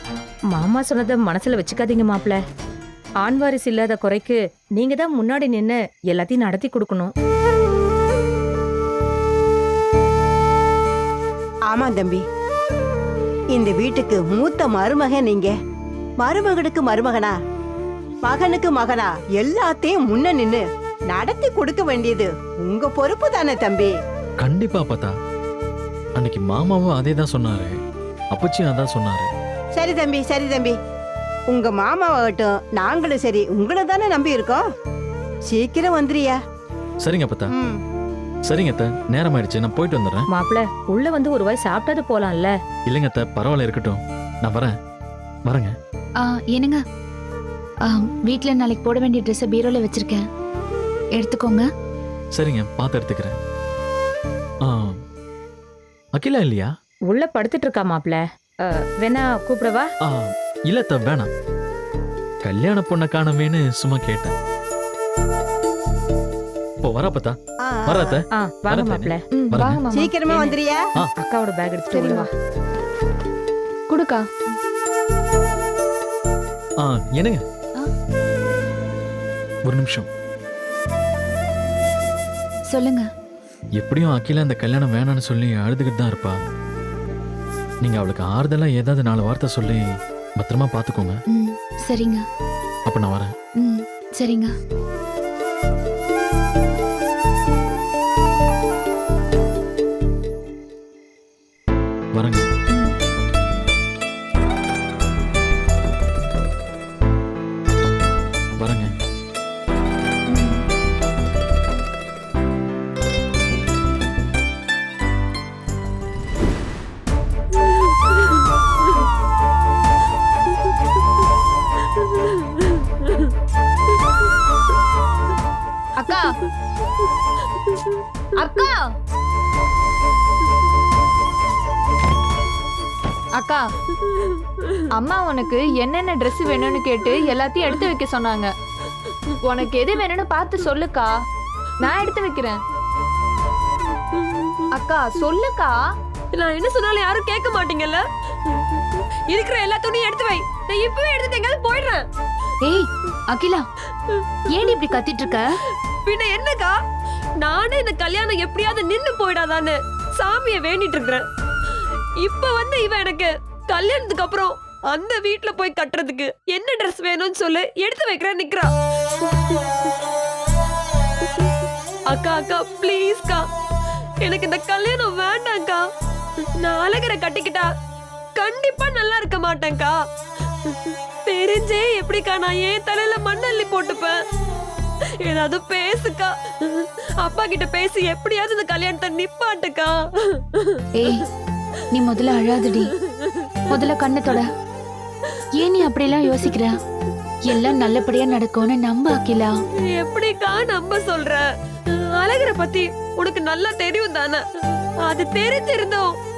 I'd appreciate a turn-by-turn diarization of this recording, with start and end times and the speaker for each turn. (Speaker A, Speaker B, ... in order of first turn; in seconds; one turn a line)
Speaker A: 0.5-2.4
Speaker A: 3.2-7.1
Speaker B: 11.7-12.2
Speaker B: 13.5-15.5
Speaker B: 16.2-17.3
Speaker B: 18.2-23.9
Speaker C: 24.4-25.1
Speaker C: 26.2-27.8
Speaker C: 28.3-29.3
Speaker B: 29.7-30.8
Speaker B: 31.5-34.6
Speaker B: 35.5-36.4
Speaker C: 37.0-37.5
Speaker B: 37.5-37.8
Speaker C: 38.5-40.2
Speaker A: 40.3-42.5
Speaker C: 42.9-44.7
Speaker C: 45.5-45.7
Speaker D: 46.2-46.8
Speaker D: 47.9-50.2
Speaker D: 51.1-51.6
Speaker C: 52.3-53.3
Speaker C: 54.6-55.0
Speaker C: 56.1-56.7
Speaker A: 57.1-59.9
Speaker C: 60.0-61.3
Speaker C: 62.4-64.3
Speaker C: 66.8-69.9
Speaker B: 67.6-68.2
Speaker A: 68.3-69.2
Speaker E: 69.3-70.1
Speaker B: 69.9-70.9
Speaker A: 70.2-70.6
Speaker A: 71.2-72.3
Speaker E: 73.9-74.2
Speaker C: 76.8-77.4
Speaker C: 79.7-80.1
Speaker D: 82.7-83.0
Speaker C: 83.8-86.3
Speaker C: 87.8-89.8
Speaker C: 90.4-91.2
Speaker D: 91.3-92.2
Speaker C: 92.9-93.3
Speaker D: 93.6-94.5
Speaker C: 102.1-102.5
Speaker C: 108.6-108.9
Speaker D: 110.3-110.6
Speaker E: 126.0-126.3
Speaker E: 128.4-128.9
Speaker E: 133.3-133.7
Speaker E: 134.9-138.5
Speaker E: 139.4-141.2
Speaker E: 141.8-142.6
Speaker E: 144.7-145.8
Speaker F: 146.3-148.0
Speaker F: 149.3-152.0
Speaker D: 152.6-153.6
Speaker D: 154.5-155.4
Speaker F: 156.0-156.8
Speaker F: 157.4-161.2
Speaker F: 162.2-168.7
Speaker F: 172.1-173.4
Speaker F: 174.2-175.8
Speaker F: 176.6-177.7
Speaker F: 178.4-179.9
Speaker F: 181.2-184.2
Speaker F: 185.2-190.8
Speaker D: 191.0-191.2
Speaker D: 191.9-192.9
Speaker D: 193.7-194.5
Speaker D: 195.6-196.7
Speaker D: 197.4-199.5
Speaker F: 199.8-204.4
Speaker F: 205.1-206.1